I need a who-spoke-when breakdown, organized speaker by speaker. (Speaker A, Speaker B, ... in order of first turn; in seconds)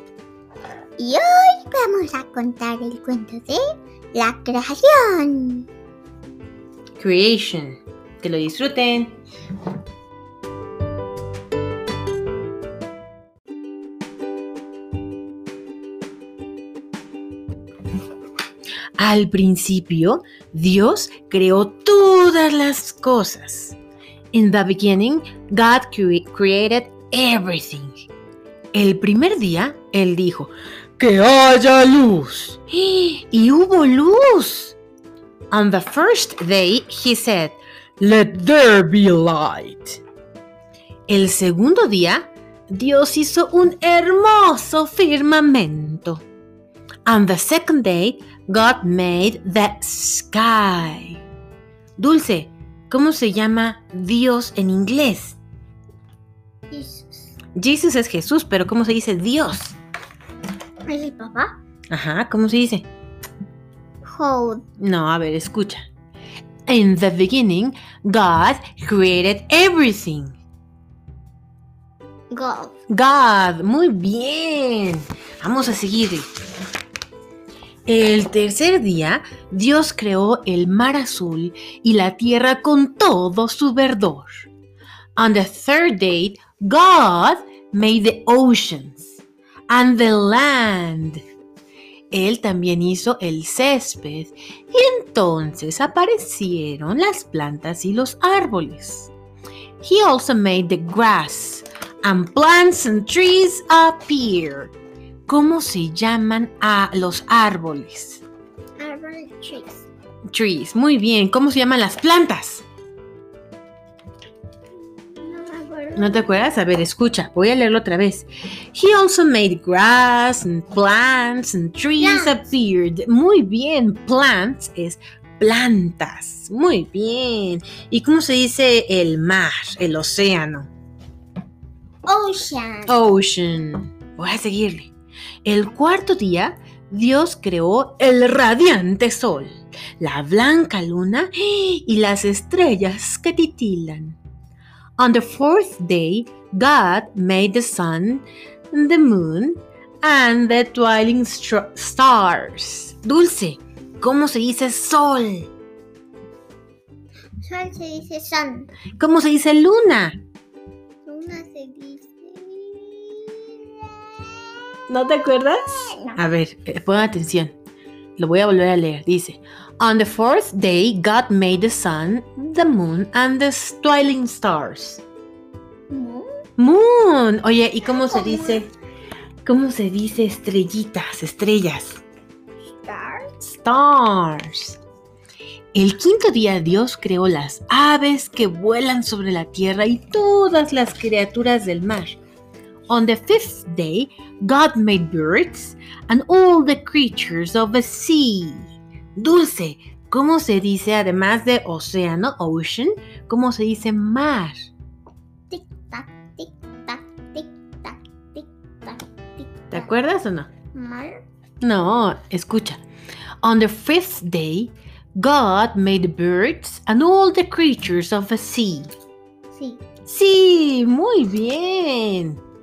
Speaker A: 1.0-3.6, 4.1-5.7, 56.7-57.3, 60.9-61.5, 64.0-64.6, 72.3-72.8, 108.8-109.9, 114.9-116.5, 122.0-122.3, 132.1-133.0, 157.4-158.7, 161.1-164.6, 165.5-166.2, 175.9-176.3, 177.8-178.7, 182.8-183.3, 205.5-209.9, 210.7-211.2, 219.5-219.8
Speaker B: 7.0-9.2, 19.0-23.8, 24.3-28.1, 28.7-34.8, 35.5-40.0, 41.1-46.2, 47.1-51.2, 52.0-55.4, 57.6-59.8, 61.9-62.9, 64.8-65.8, 66.7-70.3, 72.9-76.3, 77.9-84.5, 85.2-91.2, 92.1-99.1, 99.8-104.7, 105.3-108.2, 110.3-112.6, 116.0-130.7, 132.9-134.9, 135.4-144.2, 145.0-155.5, 159.0-160.2, 164.9-167.5, 168.2-175.0, 176.6-178.7, 179.4-182.0, 183.4-184.8, 185.7-192.2, 192.9-204.7, 209.7-210.5, 211.6-212.8, 213.4-218.9, 220.1-222.4